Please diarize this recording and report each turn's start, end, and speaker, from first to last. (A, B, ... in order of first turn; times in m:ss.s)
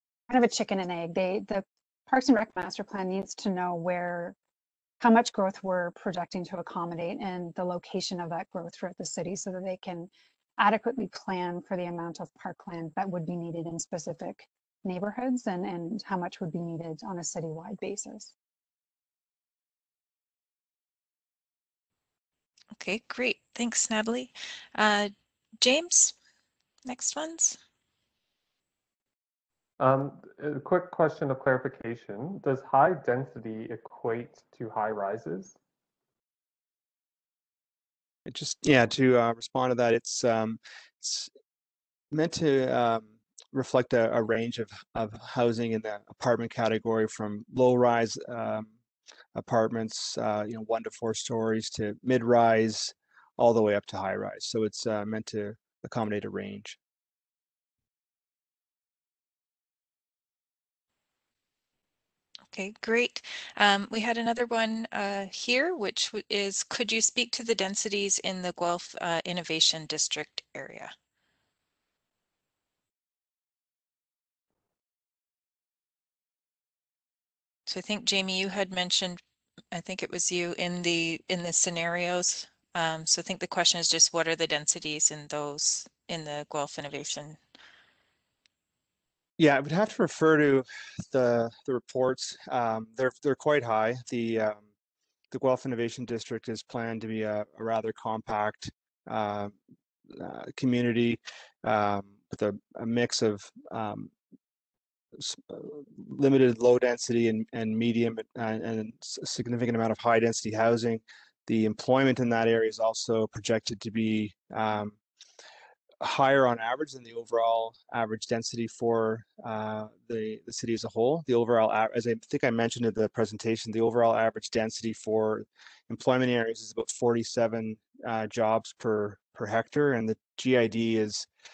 0:00.3-0:04.4 A
0:05.0-0:18.3 A
0:22.8-0:26.1 B
0:26.8-0:27.6 B
0:29.8-0:35.6 C
0:38.3-0:41.3 D
0:42.1-0:48.7 D
0:49.3-0:56.8 D
1:02.5-1:10.9 B
1:17.7-1:19.2 B
1:19.7-1:27.4 B
1:29.4-1:34.6 D
1:35.3-1:39.5 D
1:40.1-1:44.1 D
1:45.2-1:55.0 D
1:56.0-2:11.3 D